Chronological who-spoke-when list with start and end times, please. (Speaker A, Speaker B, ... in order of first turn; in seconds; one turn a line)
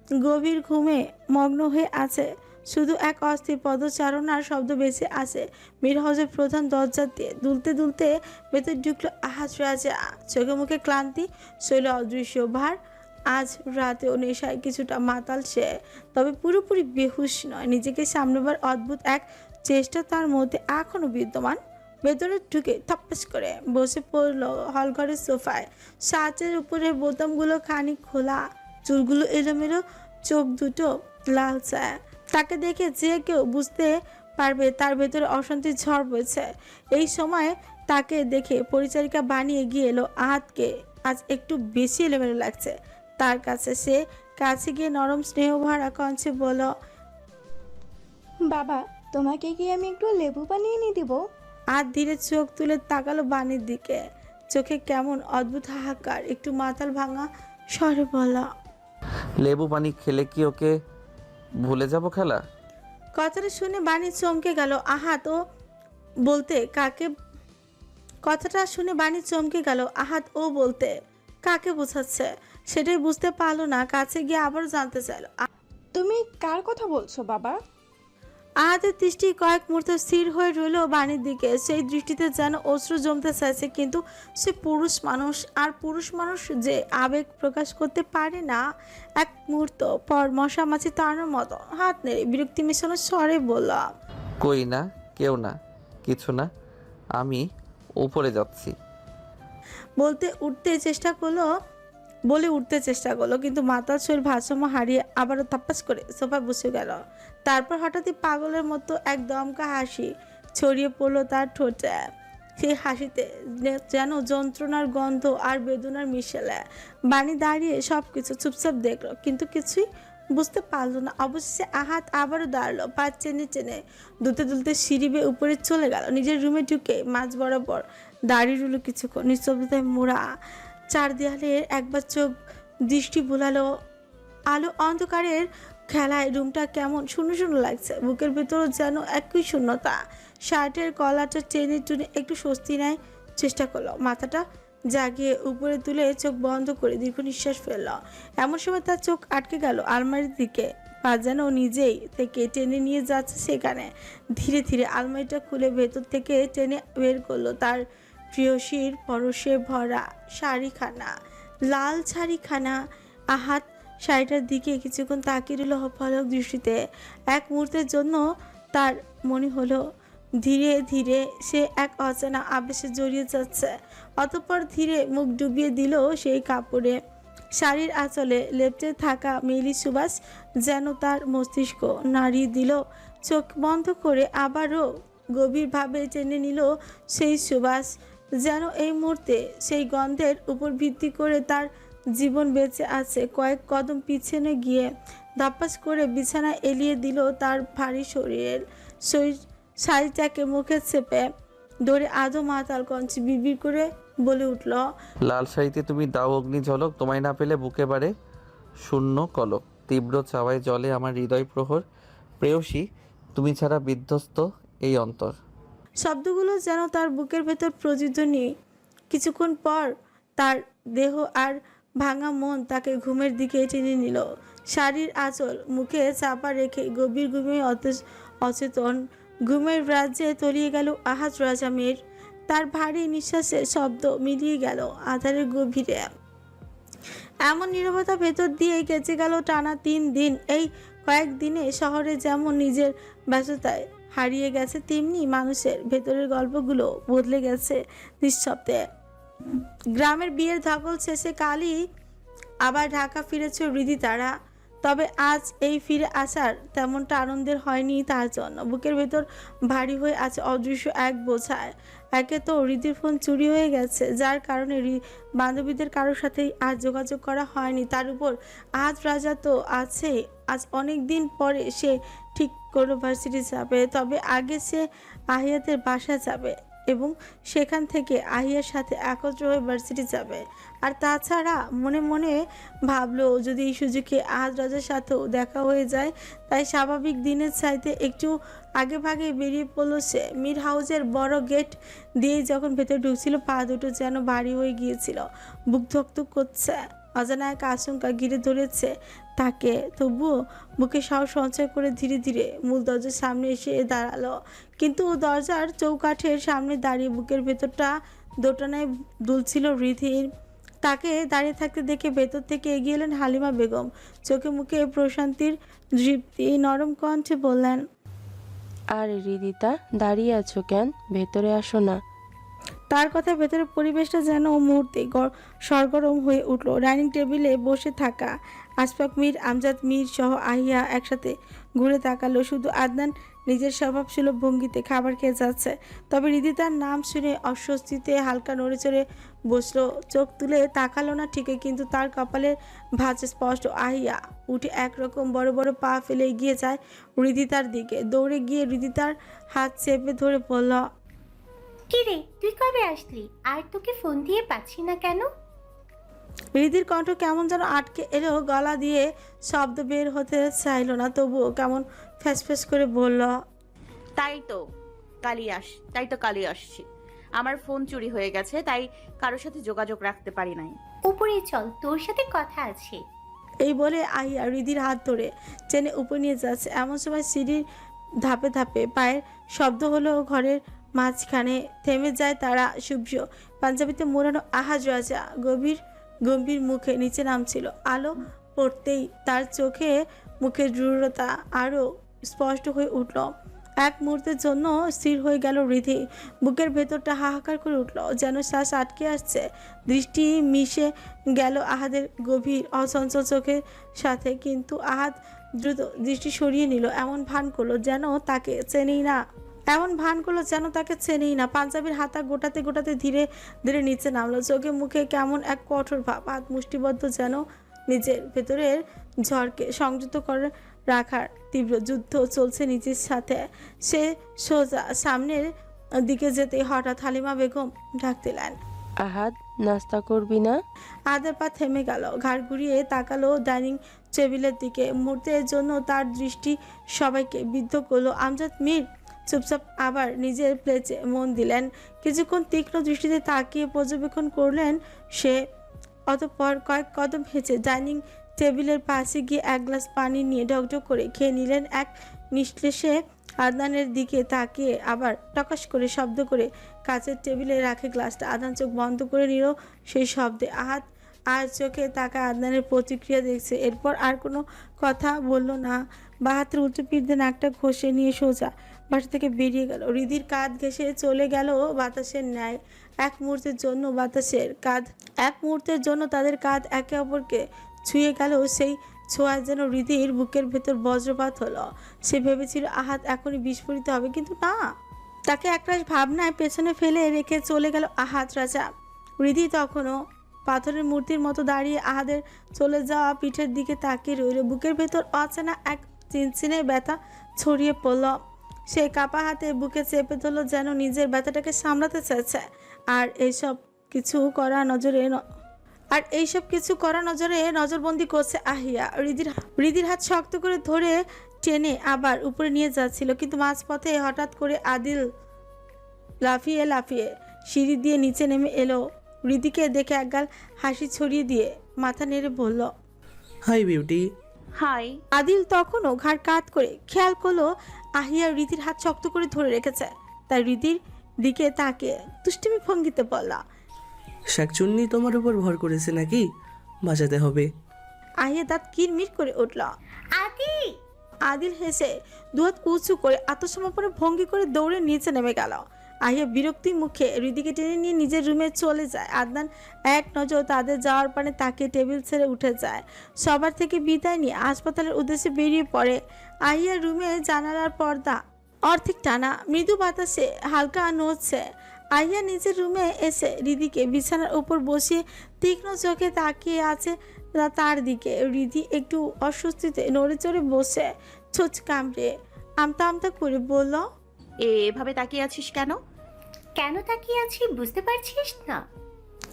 Speaker A: 0.2-12.8
Speaker A: 13.3-46.7
Speaker B: 48.4-51.2
Speaker A: 51.7-54.0
Speaker A: 54.5-58.5
Speaker C: 59.4-60.8
Speaker C: 61.6-62.4
Speaker A: 63.2-65.4
Speaker A: 66.3-67.1
Speaker A: 68.2-75.5
Speaker B: 75.9-77.6
Speaker A: 78.6-88.6
Speaker A: 89.2-93.9
Speaker C: 94.4-96.5
Speaker C: 97.2-97.4
Speaker C: 98.0-98.7
Speaker A: 100.0-101.5
Speaker A: 102.3-130.2
Speaker A: 130.9-132.3
Speaker A: 132.9-133.7
Speaker A: 134.5-161.1
Speaker A: 161.7-162.8
Speaker A: 163.3-166.8
Speaker A: 167.3-168.2
Speaker A: 168.7-169.9
Speaker A: 170.4-177.0
Speaker A: 177.6-201.3
Speaker A: 201.8-204.8
Speaker C: 205.2-208.1
Speaker C: 208.8-211.8
Speaker C: 212.4-215.4
Speaker A: 216.0-218.5
Speaker A: 219.1-236.1
Speaker A: 237.4-248.8
Speaker A: 249.9-251.8
Speaker A: 252.6-254.3
Speaker A: 254.8-310.3
Speaker A: 310.8-317.8
Speaker D: 318.9-322.0
Speaker A: 322.9-350.8
Speaker E: 351.9-355.3
Speaker A: 356.5-363.4
Speaker F: 364.2-364.6
Speaker F: 365.2-366.9
Speaker F: 367.4-370.8
Speaker E: 371.1-373.0
Speaker A: 373.6-377.6
Speaker A: 378.2-425.5
Speaker A: 426.0-428.6
Speaker D: 429.0-430.6
Speaker A: 431.1-445.4
Speaker A: 446.1-484.7
Speaker A: 485.3-488.7
Speaker A: 489.2-498.2
Speaker A: 498.7-505.2
Speaker A: 505.9-515.1
Speaker A: 516.2-522.7
Speaker G: 523.5-524.1
Speaker F: 524.5-525.0
Speaker A: 525.1-533.4
Speaker G: 534.3-536.3
Speaker G: 536.9-537.5
Speaker A: 538.2-539.7
Speaker E: 540.1-540.8
Speaker A: 541.3-573.9
Speaker F: 574.4-575.8
Speaker E: 576.6-578.6